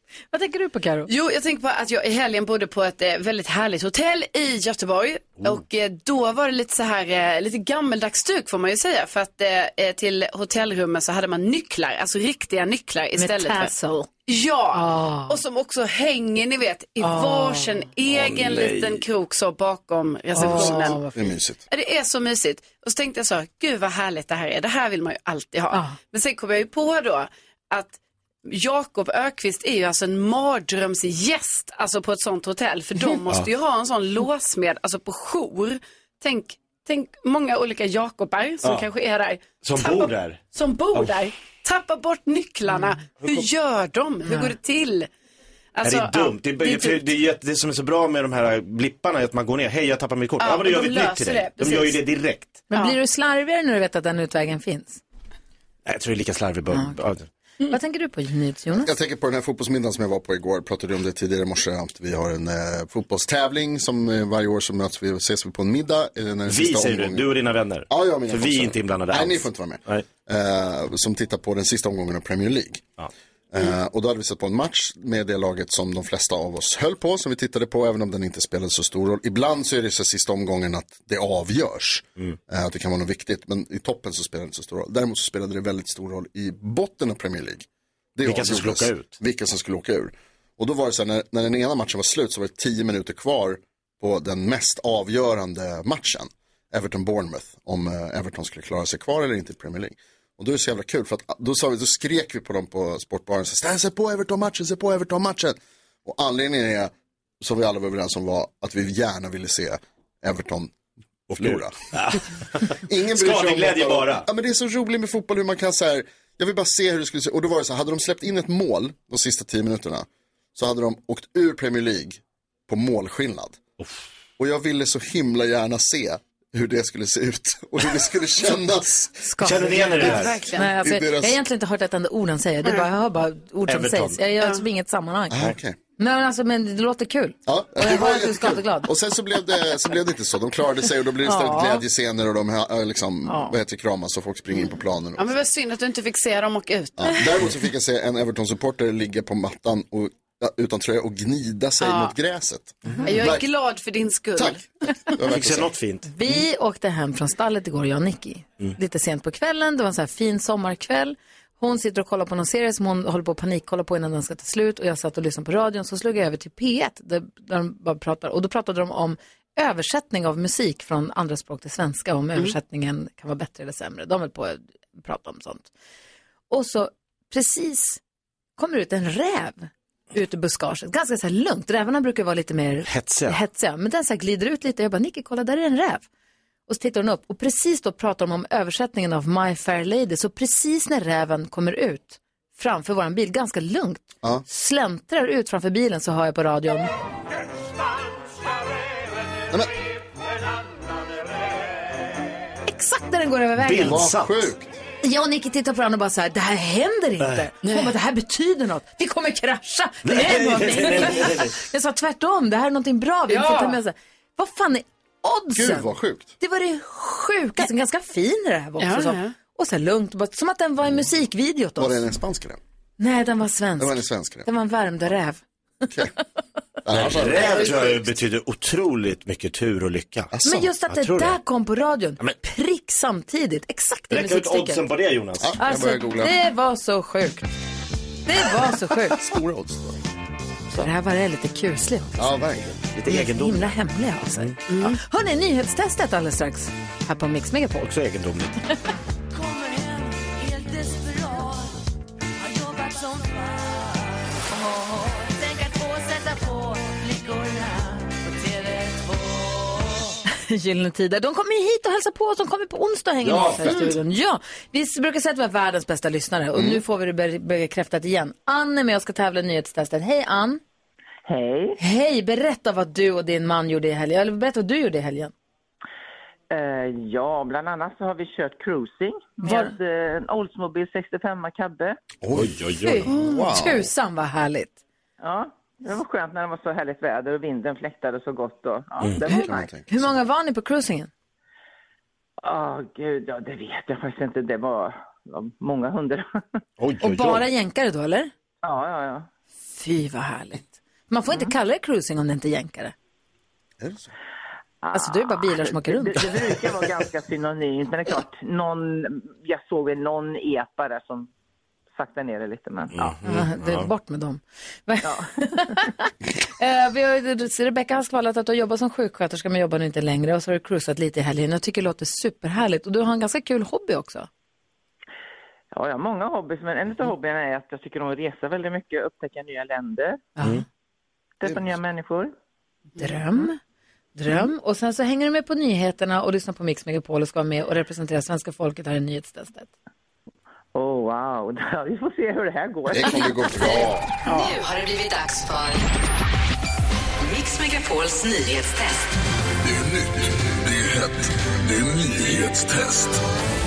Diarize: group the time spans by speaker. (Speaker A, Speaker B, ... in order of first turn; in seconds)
Speaker A: 0.3-1.1, 13.2-14.1, 14.8-15.3, 17.0-17.8, 20.3-21.2, 44.2-44.5, 52.7-55.0, 57.7-58.9, 129.2-135.4, 136.0-138.9, 141.2-141.8, 143.3-143.5, 156.1-175.7, 176.5-178.0, 178.6-186.1, 186.7-196.9, 202.7-204.1, 205.0-215.9, 216.4-222.0, 223.0-225.4, 230.4-234.8, 235.6-237.4, 238.3-239.2, 240.8-242.3, 243.1-247.9, 260.3-270.6, 271.8-275.3, 279.4-279.7, 282.8-284.7, 289.2-291.1, 297.0-298.3, 299.8-302.9, 304.9-306.2, 313.2-324.3, 330.4-330.6, 333.0-333.6, 334.2-339.7
Speaker B: 1.1-13.7, 14.3-21.0, 21.7-45.1, 45.8-47.1, 50.4-52.0, 52.7-53.0, 129.7-130.7, 145.2-147.4, 151.8-152.1, 153.0-154.6, 213.3-213.8, 218.8-219.3, 244.7-245.0
Speaker C: 18.1-19.0, 39.6-40.4, 43.2-43.5, 45.8-52.6, 55.9-57.3, 66.5-70.1, 88.2-89.1, 111.3-114.3, 129.4-130.4, 133.7-134.2, 155.2-156.4, 182.9-183.4, 203.6-204.5, 207.2-207.5, 210.1-211.6, 226.9-231.4, 234.1-235.6, 242.9-243.8, 247.8-248.6, 263.2-263.7, 282.3-283.1, 296.8-297.4, 312.9-313.9
Speaker D: 20.4-21.6, 58.7-67.4, 67.9-72.8, 73.5-110.7, 111.4-111.8, 112.8-123.6, 124.4-129.3, 130.7-131.4, 135.3-135.8, 137.5-145.3, 147.0-153.4, 154.4-155.7, 203.8-204.8, 215.5-216.3, 221.8-222.6, 223.8-224.5, 226.8-228.1, 230.3-230.7, 235.4-236.3, 239.1-240.0, 242.2-242.9, 266.6-266.8, 282.2-282.5, 283.1-283.9, 289.3-290.1, 303.8-304.1, 342.9-344.1
Speaker E: 271.3-271.8, 276.5-282.0, 285.2-289.6, 292.4-296.3, 298.6-299.3, 304.8-311.3, 312.0-313.1, 325.7-330.2, 331.4-332.3, 340.8-343.6
Speaker F: 344.3-345.9, 347.2-349.1
Speaker G: 349.6-353.2